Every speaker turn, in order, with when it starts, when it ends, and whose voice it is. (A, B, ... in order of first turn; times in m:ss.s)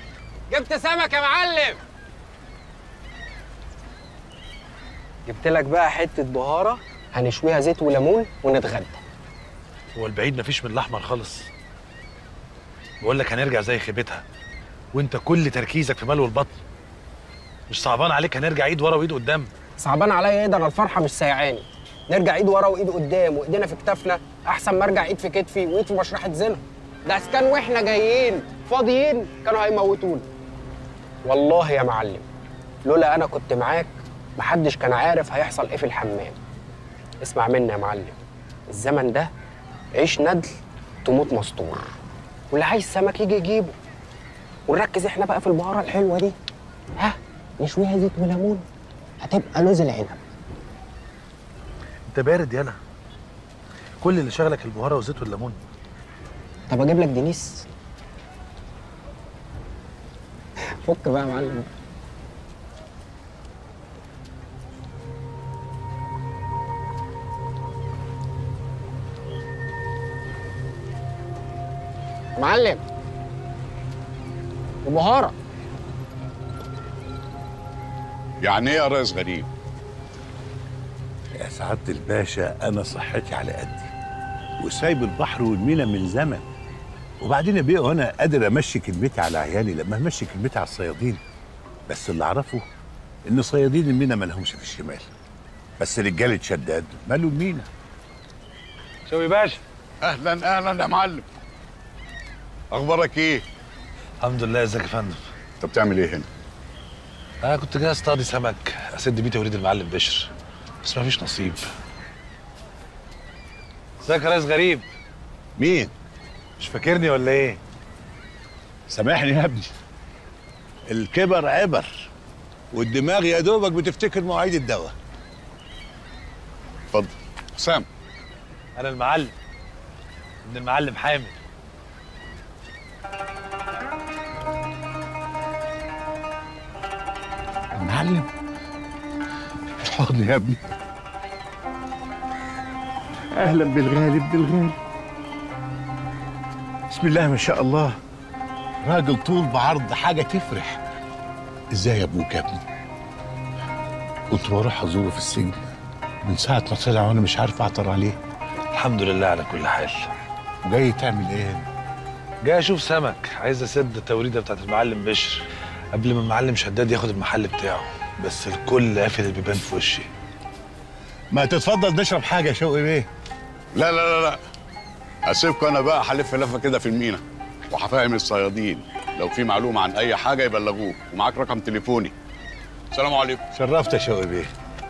0:00.5-0:01.8 A
0:05.3-0:09.0 A
0:10.0-0:11.5 B
0:13.0-0:14.2 B
0:14.9-0:16.6 B
0:17.7-0:19.5 B
0:19.8-0:30.3 A
0:31.2-0:32.2 A
0:32.8-0:36.4 A
0:37.2-0:38.2 A
0:38.7-0:39.3 A
0:40.0-0:40.5 A
0:41.0-0:41.9 A
0:42.5-0:43.8 A
0:44.7-0:46.4 A
0:47.0-0:48.6 A
0:49.2-0:50.2 A
0:52.1-0:52.8 B
0:54.0-0:55.6 B
0:56.7-0:57.7 A
1:00.8-1:01.7 A
1:12.4-1:12.8 A
1:14.8-1:15.3 A
1:18.4-1:19.5 C
1:21.4-1:23.9 D
1:24.6-1:26.4 D
1:27.2-1:31.2 D
1:31.9-1:32.7 D
1:33.2-1:35.1 D
1:35.8-1:37.7 D
1:39.1-1:39.6 B
1:40.0-1:41.3 C
1:42.7-1:43.4 C
1:44.2-1:45.2 B
1:45.6-1:46.2 C
1:47.4-1:50.3 B
1:50.8-1:51.6 B
1:54.0-1:54.8 B
1:55.6-1:55.9 D
1:56.6-1:57.6 B
1:58.9-1:59.7 D
2:00.9-2:02.1 D
2:02.7-2:04.9 D
2:06.9-2:07.8 C
2:08.8-2:09.3 B
2:10.4-2:11.3 B
2:17.8-2:18.3 D
2:19.8-2:20.6 D
2:23.3-2:24.8 D
2:26.9-2:28.0 D
2:28.8-2:30.8 D
2:31.7-2:32.6 D
2:34.3-2:35.6 D
2:36.2-2:38.2 D
2:38.7-2:40.1 B
2:40.6-2:41.7 D
2:42.4-2:50.1 B
2:51.3-2:53.1 D
2:53.8-2:54.4 C
2:55.3-3:02.1 C
3:02.9-3:03.4 C
3:03.5-3:04.5 D